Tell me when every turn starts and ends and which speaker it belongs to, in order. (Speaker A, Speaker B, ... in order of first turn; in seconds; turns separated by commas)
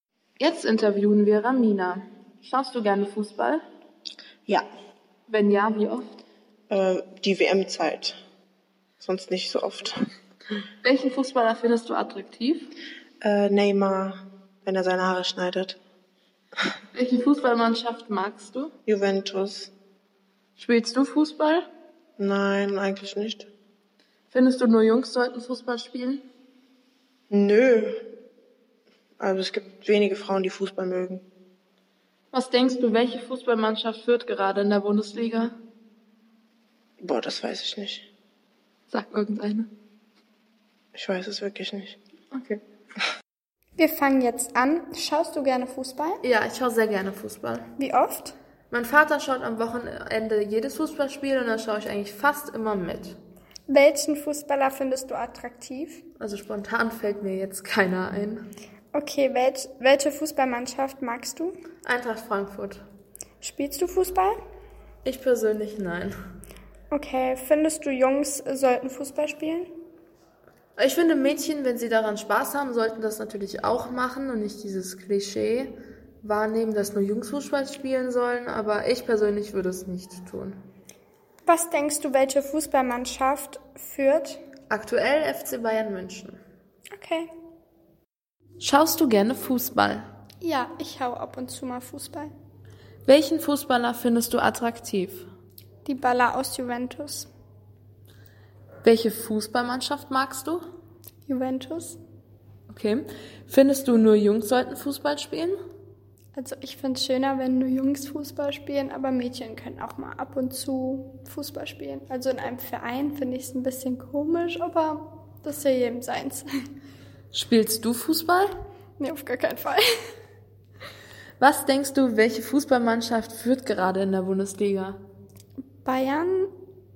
Speaker A: 0.4-3.6, Speaker A: 5.3-6.1, Speaker B: 6.7-8.2, Speaker B: 9.0-10.0, Speaker A: 10.8-12.7, Speaker B: 13.2-15.8, Speaker A: 16.9-18.7, Speaker B: 18.9-19.7, Speaker A: 20.6-21.6, Speaker B: 22.2-23.5, Speaker A: 24.3-26.2, Speaker B: 27.3-28.0, Speaker B: 29.2-31.2, Speaker A: 32.3-35.5, Speaker B: 37.0-38.1, Speaker A: 38.9-39.7, Speaker B: 40.9-42.0, Speaker A: 42.3-42.6, Speaker C: 43.8-46.2, Speaker A: 46.2-47.7, Speaker C: 47.8-48.3, Speaker A: 48.7-53.2, Speaker C: 53.7-56.0, Speaker A: 56.2-58.5, Speaker C: 58.9-61.5, Speaker A: 61.8-62.8, Speaker C: 63.4-64.3, Speaker A: 65.0-66.2, Speaker C: 66.9-69.7, Speaker A: 70.8-80.6, Speaker C: 81.5-84.4, Speaker A: 84.7-86.4, Speaker C: 86.9-87.3, Speaker A: 88.6-90.0, Speaker C: 90.4-92.3, Speaker A: 93.0-95.3, Speaker C: 95.8-97.3, Speaker A: 98.8-100.6, Speaker C: 101.3-102.0, Speaker A: 102.7-105.5, Speaker C: 106.3-116.5, Speaker A: 117.3-118.5, Speaker C: 119.0-119.8, Speaker A: 121.4-125.0, Speaker C: 125.8-126.5